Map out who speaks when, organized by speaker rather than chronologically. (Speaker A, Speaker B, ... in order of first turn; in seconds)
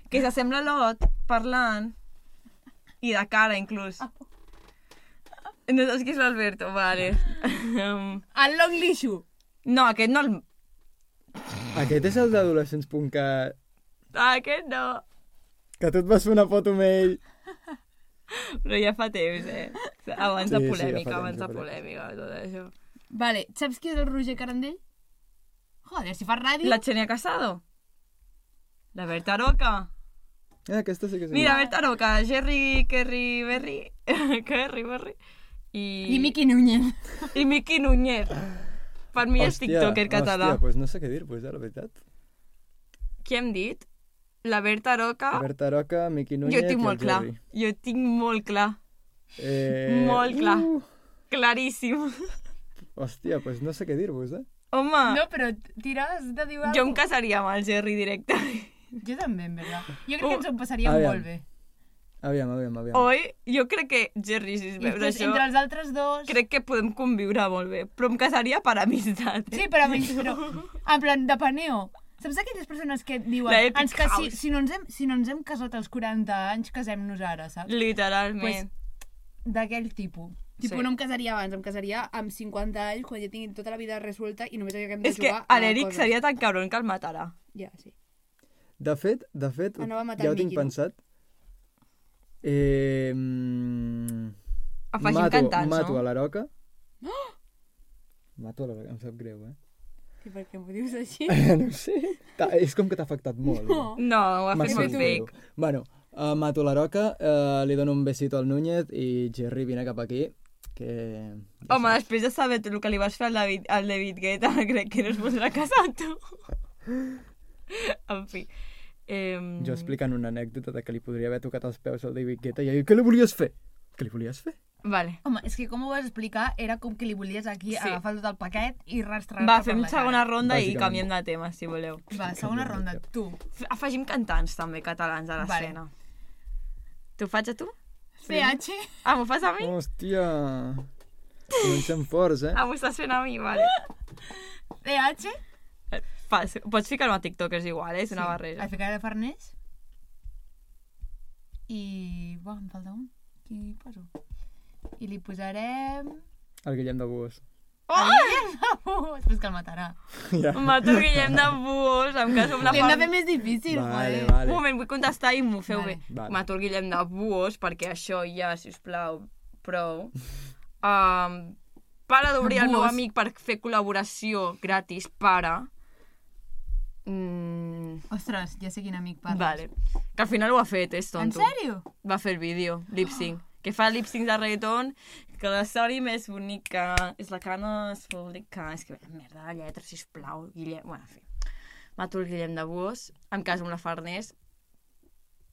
Speaker A: 0.1-1.9, 3.0-4.0, 5.7-8.2, 9.6-10.4, 14.1-15.0, 18.3-22.7, 26.6-27.6, 28.9-29.9, 31.3-35.2, 35.7-36.4, 37.3-38.5, 39.1-40.6, 43.2-43.9, 44.4-45.5, 46.4-48.8, 49.8-50.7, 51.3-52.4, 54.7-55.2, 56.6-58.8, 62.9-65.4, 66.2-70.6, 73.5-74.4, 77.7-78.7, 85.0-87.3, 94.9-96.0, 104.0-105.3, 111.7-116.4, 117.7-118.5, 119.1-119.9, 124.8-125.2, 127.7-128.0, 129.4-132.0, 133.6-135.9, 137.2-137.7, 138.2-139.7, 141.5-141.8, 142.5-143.8, 145.9-148.7, 157.9-158.4, 160.5-163.1, 164.4-170.2, 170.8-171.6, 172.1-175.7, 177.1-178.0, 179.3-191.3, 192.0-194.3
Speaker B: 8.3-9.2, 23.1-24.8, 25.8-26.8, 31.4-31.8, 36.1-37.3, 55.0-57.0, 59.0-61.4, 64.8-66.3, 69.5-77.7, 78.4-78.7, 79.4-86.1, 87.5-87.9, 89.8-90.7, 97.0-97.3, 100.2-101.5, 103.5-104.0, 104.6-105.2, 125.2-130.2, 132.1-133.4, 135.4-135.7, 138.2-139.0, 144.8-145.4, 148.1-149.5, 151.7-154.1, 155.0-156.2, 157.9-160.0, 162.7-164.4, 165.7-166.0, 172.4-173.0, 178.1-179.6, 181.2-181.8
Speaker C: 11.7-13.6, 15.8-17.2, 20.4-21.7, 30.7-31.5, 39.4-42.0, 45.3-47.4, 49.4-50.9, 52.9-54.5, 60.8-61.2, 62.2-63.1, 88.8-91.0, 92.4-94.3, 95.0-96.5, 98.4-99.5, 101.3-112.0, 119.6-124.5, 130.4-131.0, 132.1-133.0, 139.6-140.9, 141.6-142.6, 156.6-157.4, 160.2-161.5, 162.5-162.9, 163.7-164.6, 166.1-166.4